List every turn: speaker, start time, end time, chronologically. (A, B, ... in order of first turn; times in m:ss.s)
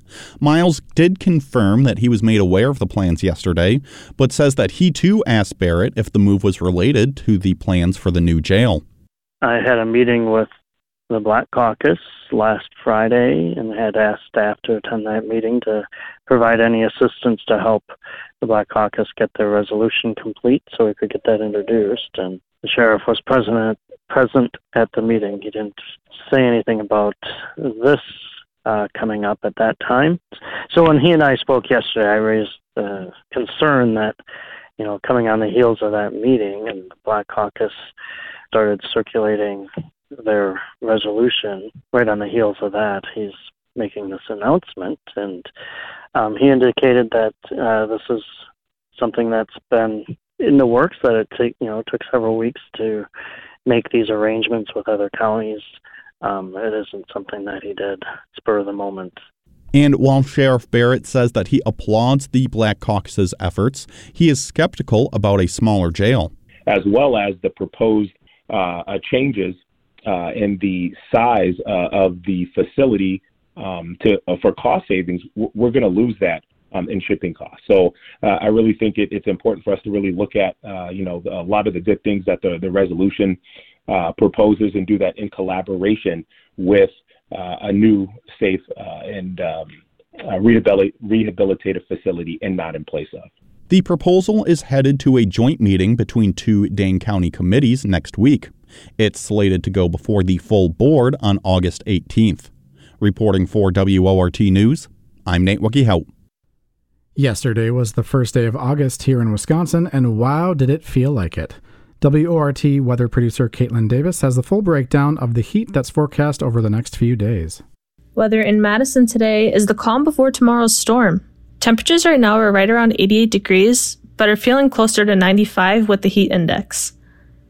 0:00.4-0:08.8 A
0:09.4-0:10.5 B
0:11.1-0:28.0 B
0:28.6-0:34.2 B
0:34.8-0:37.8 B
0:38.5-0:39.7 B
0:40.2-0:45.5 B
0:46.1-0:48.4 B
0:49.0-0:53.1 B
0:53.6-0:55.7 B
0:56.2-0:59.2 B
0:59.7-1:06.3 A
1:06.6-1:29.7 C
1:30.2-1:33.3 C
1:33.7-1:46.1 A
1:47.2-1:57.6 D
1:58.2-2:06.9 E